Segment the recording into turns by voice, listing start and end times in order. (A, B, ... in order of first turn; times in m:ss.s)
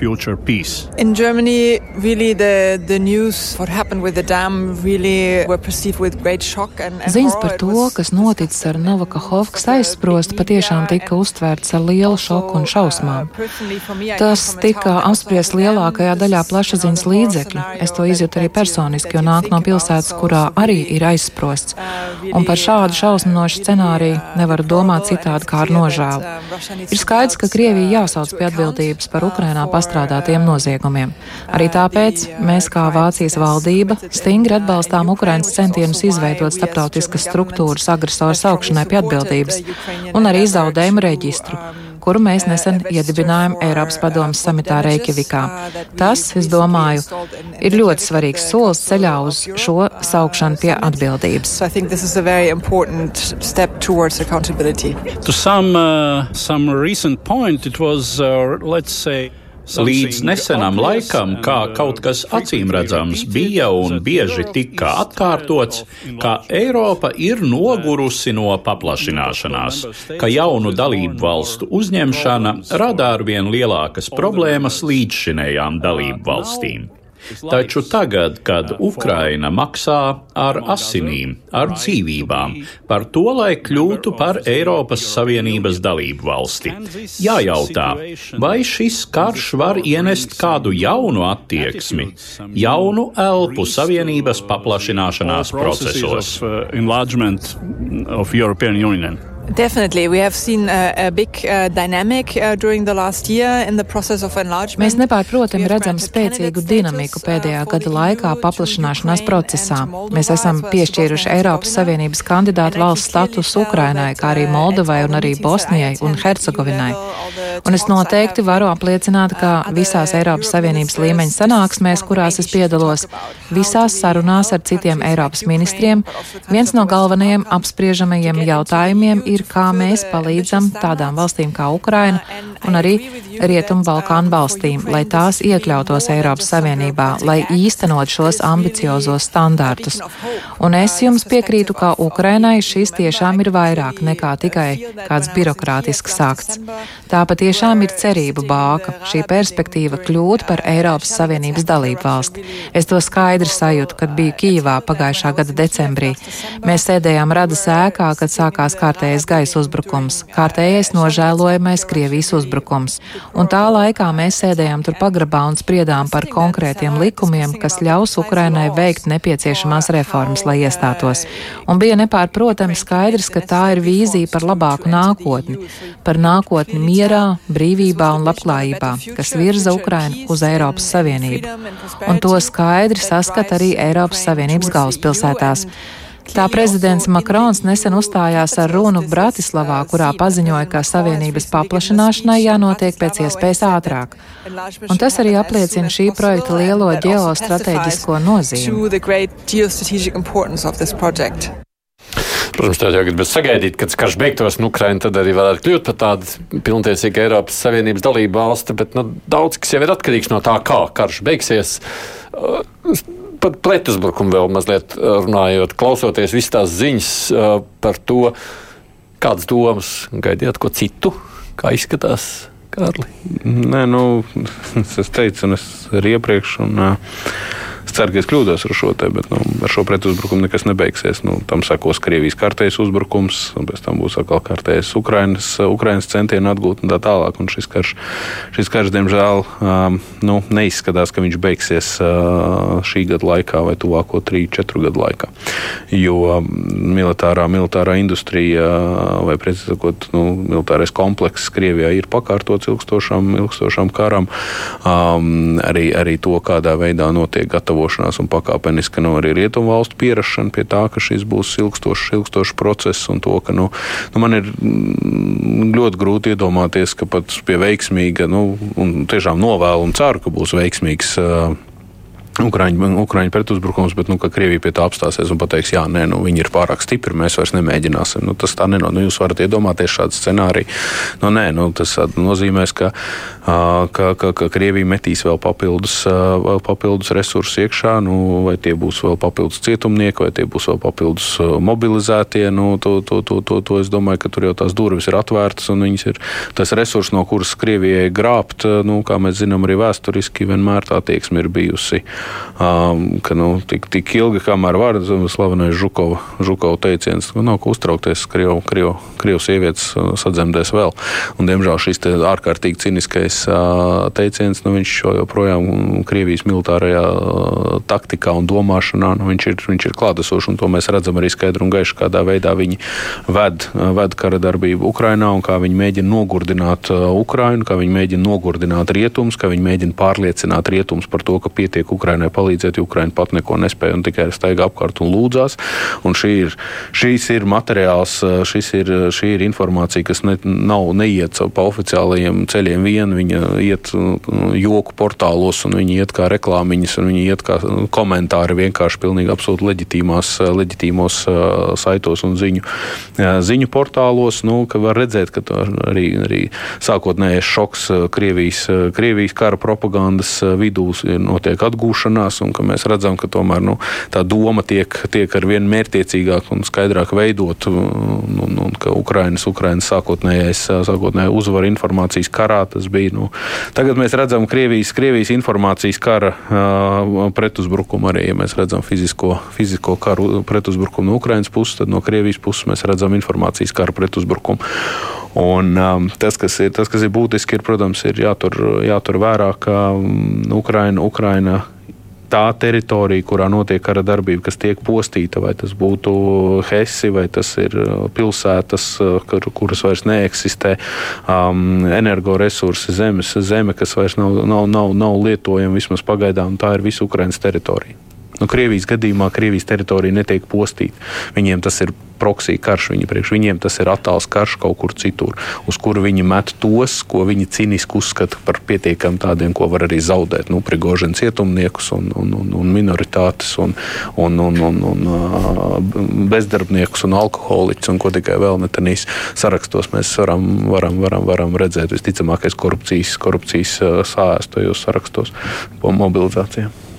0:00.2-0:00.9 A
0:01.0-0:11.3 B
0:07.0-0:13.3 C
0:12.0-0:21.0 B
0:14.1-0:26.2 C
0:21.7-0:30.8 B
0:26.9-0:39.6 C
0:31.5-0:55.1 B
0:40.1-0:47.1 C
0:47.6-0:51.6 C
0:55.2-0:59.1 D
0:55.3-0:55.7 A
0:59.7-1:13.2 D
0:59.7-1:16.9 A
1:14.1-1:15.1 D
1:15.8-1:16.8 D
1:17.3-1:18.0 D
1:17.5-1:36.4 A
1:18.6-1:19.4 D
1:20.5-1:22.7 D
1:23.6-1:39.1 D
1:39.5-1:52.0 B
1:44.8-1:57.0 C
1:52.6-2:11.3 B
1:57.6-2:20.0 C
2:11.9-3:05.7 B
2:20.6-3:01.5 C
3:02.0-3:05.7 C
3:06.2-3:21.5 B
3:06.3-3:14.2 C
3:14.9-3:18.8 C
3:22.5-3:38.3 E
3:39.2-3:43.1 E
3:43.3-3:47.0 F
3:47.8-3:58.0 F
3:58.5-4:05.3 F
4:05.9-4:14.3 F
4:14.8-4:31.6 F
4:32.4-4:40.7 F
4:41.2-4:42.9 F
4:43.4-5:02.0 F
5:02.6-5:52.6 F
5:53.2-6:31.6 F
6:32.3-7:16.7 F